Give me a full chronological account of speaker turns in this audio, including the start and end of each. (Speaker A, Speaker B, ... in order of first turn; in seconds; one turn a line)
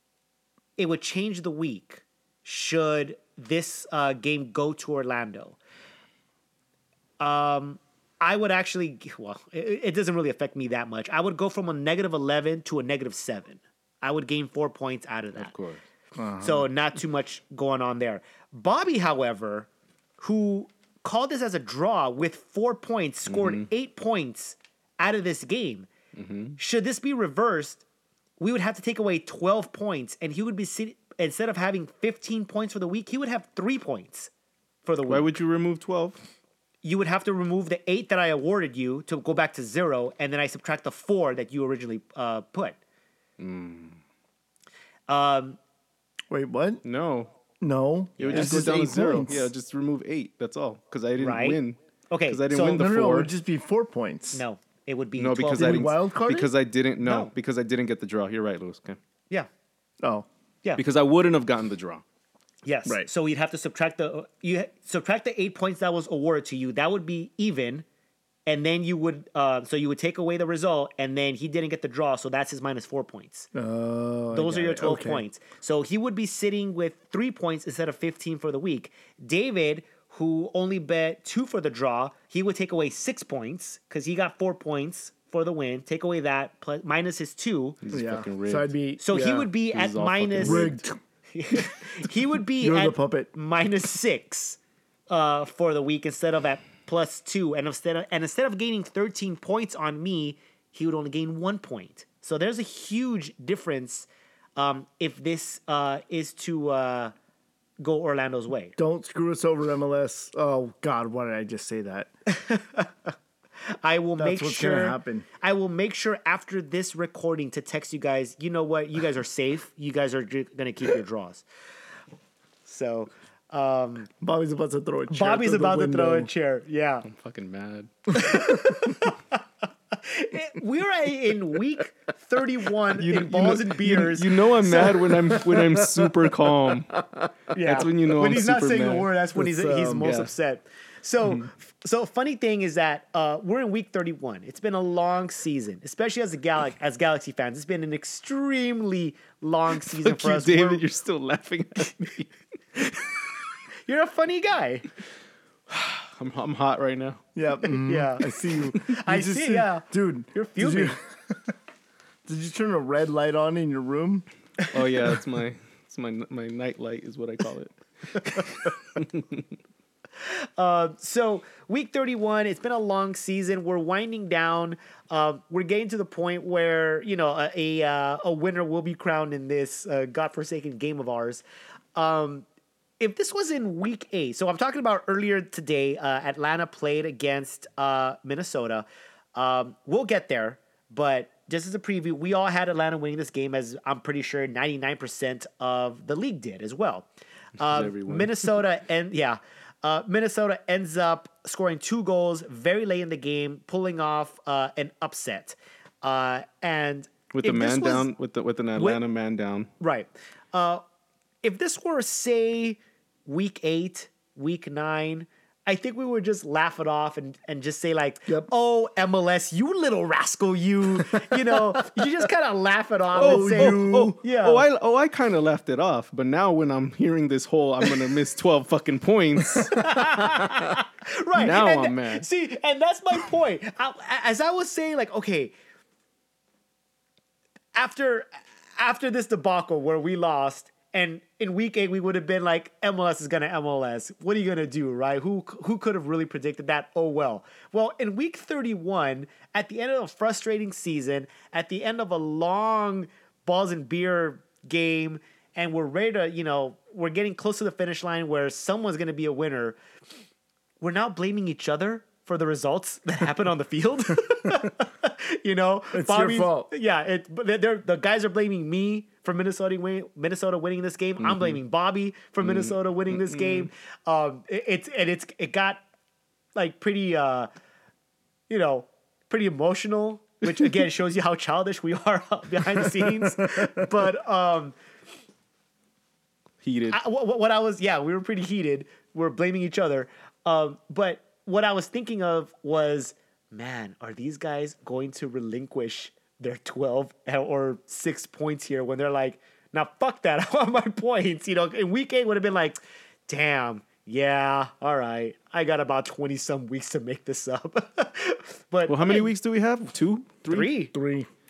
Speaker A: 0.8-5.6
Speaker A: 7.2-15.5
Speaker B: 15.4-15.8
Speaker C: 16.2-16.7
Speaker A: 16.4-19.7
Speaker A: 20.2-25.9
Speaker B: 23.3-23.7
Speaker B: 26.1-26.6
Speaker A: 26.6-27.8
Speaker A: 28.4-34.3
Speaker A: 34.8-35.4
Speaker B: 35.1-36.2
Speaker A: 36.8-42.8
Speaker B: 43.4-44.0
Speaker A: 45.1-45.6
Speaker C: 46.3-46.8
Speaker B: 46.8-47.3
Speaker C: 47.6-49.5
Speaker B: 48.2-51.8
Speaker A: 48.2-48.6
Speaker A: 51.2-52.4
Speaker B: 52.3-53.3
Speaker C: 52.5-54.4
Speaker A: 54.3-55.9
Speaker B: 55.2-59.0
Speaker C: 55.5-56.5
Speaker A: 57.0-57.3
Speaker B: 60.8-62.0
Speaker A: 62.6-67.9
Speaker A: 68.5-73.5
Speaker C: 73.5-75.2
Speaker A: 74.3-87.8
Speaker B: 87.8-88.7
Speaker C: 87.9-89.5
Speaker A: 89.0-90.8
Speaker B: 89.7-90.8
Speaker C: 90.4-91.0
Speaker A: 91.3-107.1
Speaker C: 92.6-93.3
Speaker A: 107.8-108.8
Speaker C: 108.8-112.1
Speaker A: 112.3-113.1
Speaker A: 113.8-121.5
Speaker C: 114.2-115.3
Speaker A: 122.7-124.1
Speaker C: 124.2-126.3
Speaker A: 125.1-127.1
Speaker B: 127.1-127.9
Speaker C: 128.1-128.9
Speaker A: 128.1-129.4
Speaker A: 130.0-135.1
Speaker B: 133.0-139.1
Speaker C: 134.9-136.8
Speaker A: 137.5-150.9
Speaker C: 139.3-140.1
Speaker B: 140.0-140.3
Speaker B: 141.2-141.5
Speaker B: 149.8-153.1
Speaker A: 153.9-154.9
Speaker B: 155.7-157.2
Speaker C: 157.3-161.0
Speaker A: 157.7-161.0
Speaker C: 162.3-164.3
Speaker B: 164.7-169.5
Speaker A: 170.2-181.4
Speaker A: 182.0-182.5
Speaker A: 183.0-208.1
Speaker B: 197.6-198.5
Speaker B: 207.3-209.7
Speaker A: 209.8-210.8
Speaker A: 211.4-224.7
Speaker C: 223.2-224.2
Speaker B: 223.2-229.8
Speaker C: 229.5-229.8
Speaker A: 229.7-235.5
Speaker B: 231.3-232.3
Speaker A: 237.8-259.8
Speaker A: 260.8-275.8
Speaker C: 265.9-266.7
Speaker B: 271.2-271.6
Speaker B: 272.4-273.7
Speaker A: 276.6-277.5
Speaker A: 278.5-284.8
Speaker C: 283.0-283.3
Speaker B: 286.6-287.0
Speaker A: 286.9-309.3
Speaker B: 308.9-310.7
Speaker A: 310.5-310.9
Speaker C: 310.9-311.3